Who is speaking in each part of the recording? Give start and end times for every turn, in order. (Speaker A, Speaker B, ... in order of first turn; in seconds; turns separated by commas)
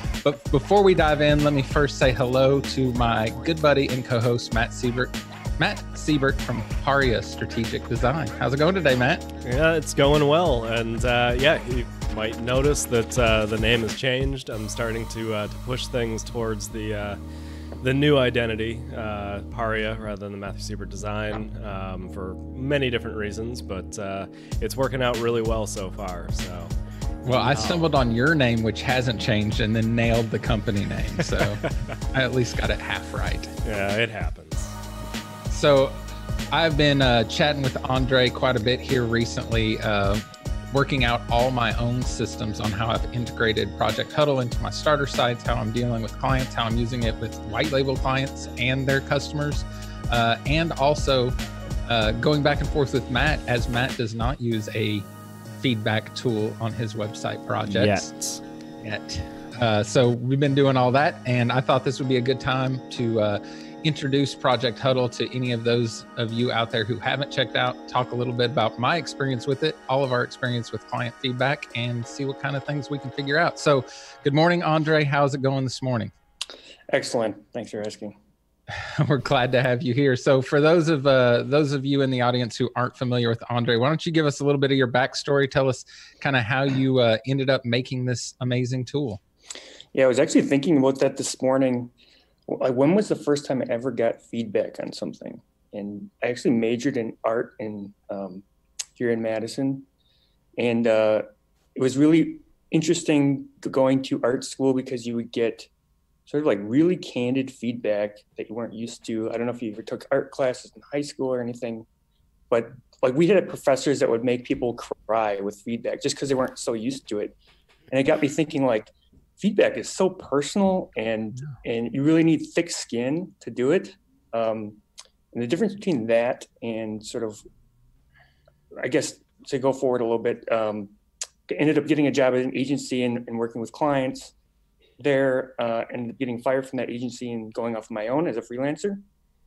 Speaker A: 0.2-9.2, Speaker B: 9.4-17.2, Speaker B: 17.8-26.7, Speaker A: 27.2-33.5, Speaker B: 27.5-27.9, Speaker B: 31.2-31.7, Speaker B: 33.6-34.7, Speaker A: 35.5-36.0, Speaker A: 36.5-58.1, Speaker B: 57.6-58.4, Speaker A: 58.8-76.1, Speaker C: 76.9-78.2, Speaker A: 78.7-89.2, Speaker C: 89.9-91.9, Speaker C: 92.5-98.4, Speaker C: 99.0-99.8, Speaker C: 100.6-105.7, Speaker C: 106.3-111.9, Speaker C: 112.5-117.3, Speaker C: 117.9-124.8, Speaker C: 125.3-127.4, Speaker C: 128.7-130.9, Speaker C: 131.5-134.3, Speaker C: 135.0-139.0